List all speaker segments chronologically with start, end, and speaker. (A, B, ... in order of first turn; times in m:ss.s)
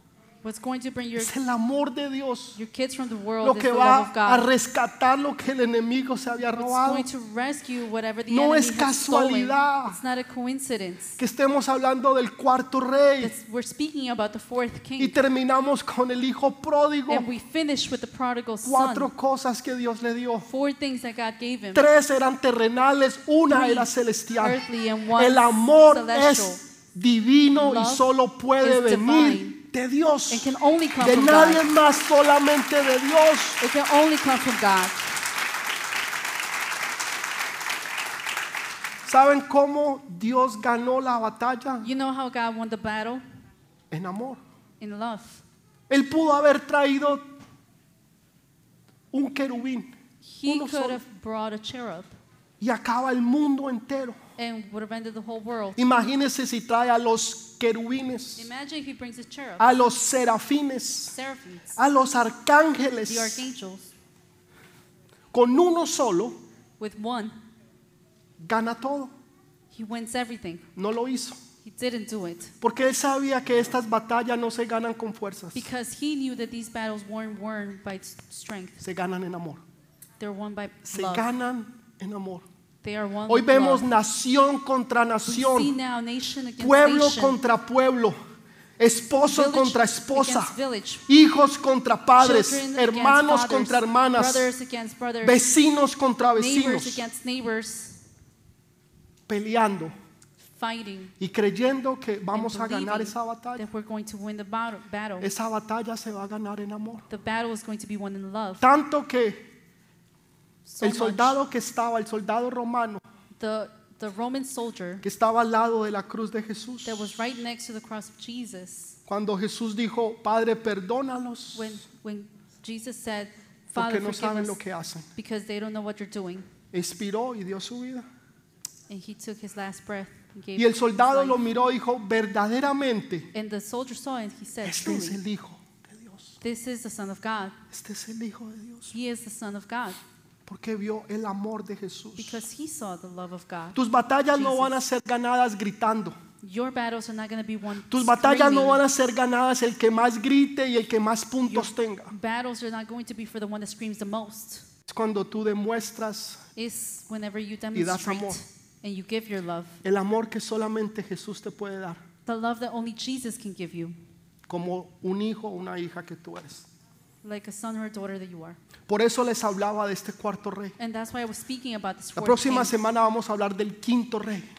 0:00.4-0:01.3 A
0:01.2-0:02.6 B
0:02.6-0:04.5 A
0:03.4-0:07.1 B
0:06.5-0:11.2 A
0:08.3-0:10.0 B
0:11.2-0:13.3 B
0:13.2-0:15.2 A
0:15.0-0:17.3 B
0:17.1-0:19.1 A
0:18.6-0:20.5 B
0:20.5-0:22.0 A
0:21.7-0:24.6 B
0:23.5-0:26.6 A
0:25.2-0:33.6 B
0:27.5-0:29.6 A
0:30.3-0:31.7 A
0:33.6-0:35.1 A
0:39.0-0:41.9 B
0:41.8-0:43.2 A
0:43.9-0:44.4 B
0:44.8-0:45.4 A
0:45.9-0:47.2 B
0:49.1-0:49.9 B
0:50.2-0:52.1 A
0:50.4-0:51.0 B
0:52.6-0:54.2 B
0:54.4-0:55.8 A
0:55.8-0:58.5 B
0:58.4-0:59.8 A
0:59.6-1:01.1 B
1:01.0-1:01.8 A
1:01.8-1:03.4 B
1:03.1-1:03.9 A
1:05.3-1:06.4 B
1:06.8-1:07.3 A
1:08.4-1:09.1 B
1:09.7-1:10.7 A
1:10.8-1:11.4 B
1:11.6-1:12.5 A
1:12.6-1:15.7 B
1:15.5-1:18.8 A
1:18.8-1:19.6 B
1:20.2-1:21.3 A
1:20.8-1:22.4 B
1:22.8-1:23.9 A
1:23.3-1:25.7 B
1:25.2-1:27.4 A
1:26.6-1:28.2 B
1:28.8-1:30.5 B
1:29.2-1:31.0 A
1:31.1-1:34.5 B
1:32.2-1:35.4 A
1:35.2-1:37.0 B
1:36.3-1:38.0 A
1:39.3-1:39.9 B
1:40.5-1:41.1 A
1:41.2-1:43.6 B
1:42.3-1:45.3 A
1:45.2-1:47.1 B
1:47.1-1:48.6 A
1:48.6-1:49.5 B
1:50.6-1:51.4 A
1:50.8-1:53.0 B
1:53.4-1:55.0 A
1:55.0-1:57.1 B
1:56.8-1:59.0 A
1:59.1-2:01.7 B
2:01.5-2:04.6 A
2:03.7-2:05.0 B
2:05.2-2:06.5 A
2:06.7-2:08.0 B
2:08.9-2:11.4 A
2:10.6-2:13.3 B
2:13.3-2:15.2 A
2:14.6-2:16.4 B
2:16.4-2:17.6 A
2:17.7-2:18.9 B
2:18.9-2:20.0 A
2:20.4-2:22.4 B
2:22.2-2:23.8 A
2:23.7-2:26.2 B
2:24.3-2:24.8 A
2:26.4-2:28.8 A
2:27.9-2:32.1 B
2:31.4-2:34.6 A
2:34.9-2:36.4 B
2:36.6-2:39.8 A
2:37.7-2:38.4 B
2:39.8-2:42.0 B
2:42.2-2:43.9 A
2:44.5-2:46.7 B
2:47.2-2:48.6 A
2:48.9-2:50.7 B
2:50.8-2:52.7 A
2:52.2-2:54.5 B